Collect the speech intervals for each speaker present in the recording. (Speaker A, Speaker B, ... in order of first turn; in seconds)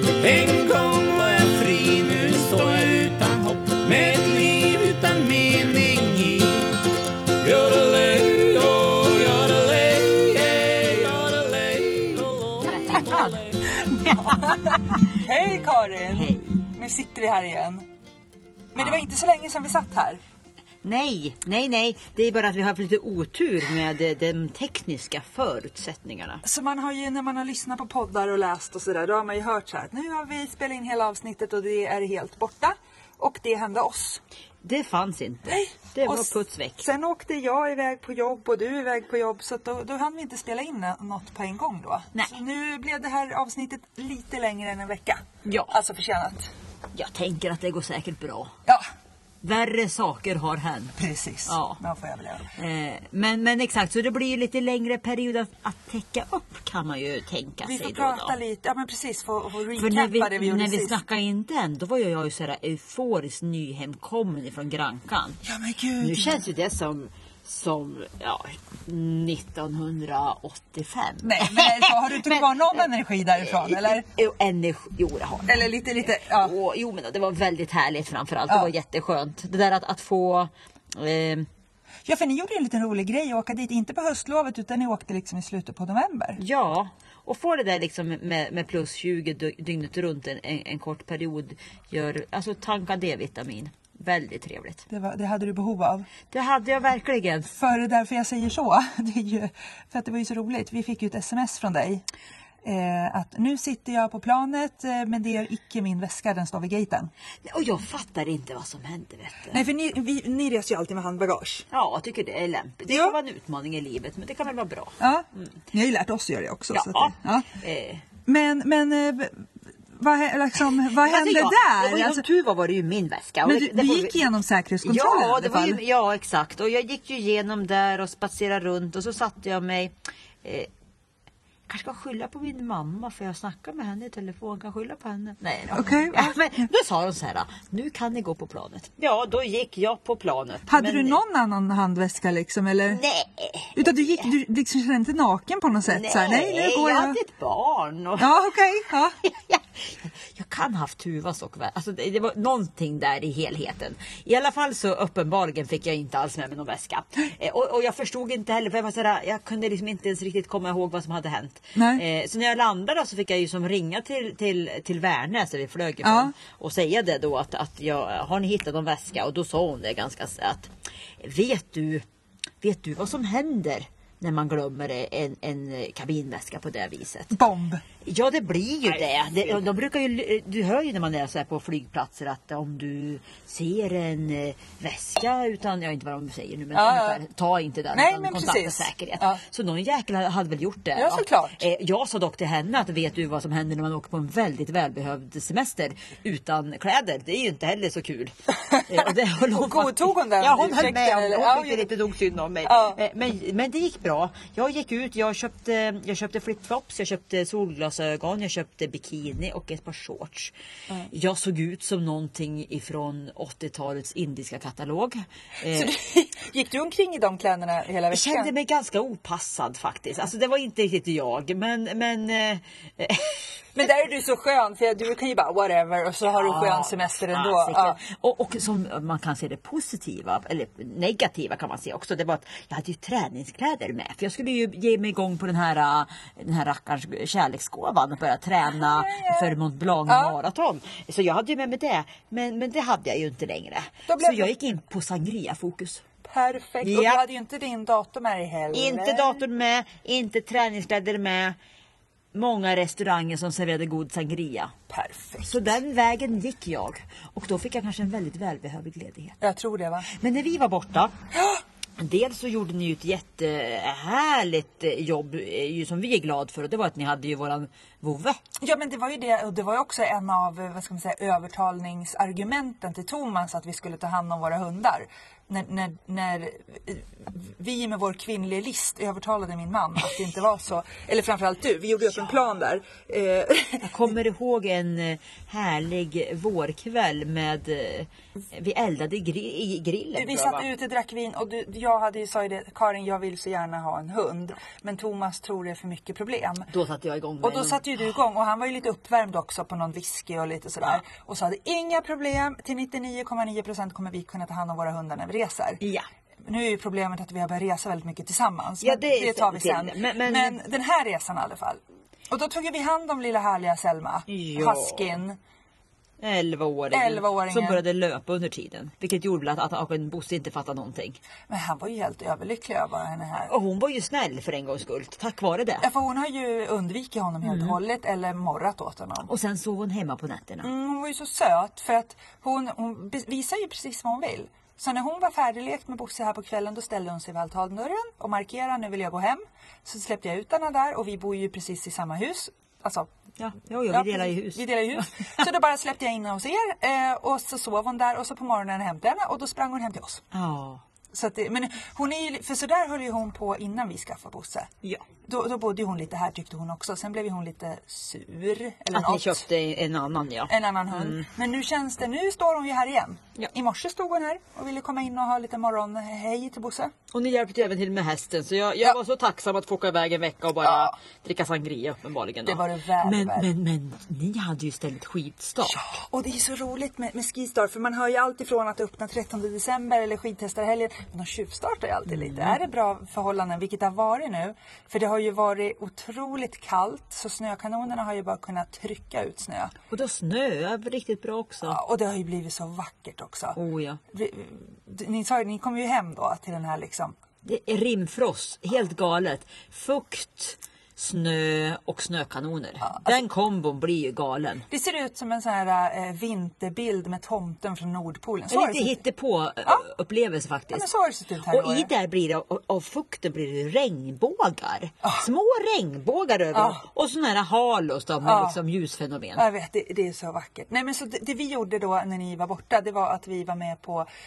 Speaker A: 0.2-6.8, 7.4-13.6
Speaker B: 12.7-15.0, 16.1-16.7, 20.8-26.4, 34.6-36.8, 45.5-45.7, 46.9-48.5, 49.4-51.0, 51.5-51.8, 52.5-58.4, 59.8-65.4, 66.0-72.5, 73.4-81.5, 86.4-94.9, 96.3-97.5, 107.5-109.6, 111.7-115.5, 116.7-118.0, 121.0-124.2, 124.8-130.7, 131.7-141.2, 142.9-144.3, 145.9-148.4, 149.2-172.1, 172.6-177.4, 178.0-198.3, 198.8-210.5, 211.1-215.9, 218.1-223.4, 226.4-246.0, 246.8-247.2, 248.7-251.6, 252.3-254.7, 255.5-259.4, 260.1-261.1, 262.0-268.4, 283.9-290.7, 296.7-297.9, 305.8-306.1, 308.8-310.6, 314.3-315.2, 316.2-321.2, 323.4-325.9, 327.5-327.8, 329.3-330.7, 343.4-344.6, 350.3-350.8, 358.9-361.3, 367.1-375.8, 382.1-382.6, 389.9-391.8, 393.6-394.0, 397.4-404.7, 408.5-410.9, 411.5-419.4
Speaker C: 15.1-17.9, 18.7-20.2, 26.4-34.2, 35.5-46.5, 51.0-52.5, 57.6-61.0, 65.4-66.4, 71.2-74.0, 75.5-76.5, 82.1-86.4, 94.9-96.1, 97.6-102.1, 102.6-107.1, 109.5-111.7, 112.9-113.2, 115.0-117.5, 118.3-122.2, 123.4-125.8, 135.7-136.3, 140.7-143.0, 143.8-147.2, 148.2-149.2, 161.8-162.0, 166.0-166.3, 177.3-177.8, 186.7-187.2, 187.9-189.4, 190.9-191.6, 198.7-201.9, 202.7-203.0, 215.7-218.5, 223.8-228.0, 238.7-240.4, 244.1-244.5, 246.2-249.4, 254.9-255.7, 259.4-260.1, 268.6-284.1, 290.1-296.7, 297.4-305.8, 306.4-315.4, 316.9-317.8, 321.5-323.5, 325.8-329.3, 330.6-343.1, 343.9-350.2, 351.1-354.7, 355.2-359.5, 360.5-366.9, 370.6-370.9, 372.5-373.5, 375.6-389.7, 391.7-393.6, 394.1-397.2, 402.9-403.2, 404.7-409.0, 410.7-411.9, 416.5-416.8, 418.2-418.6, 419.4-424.1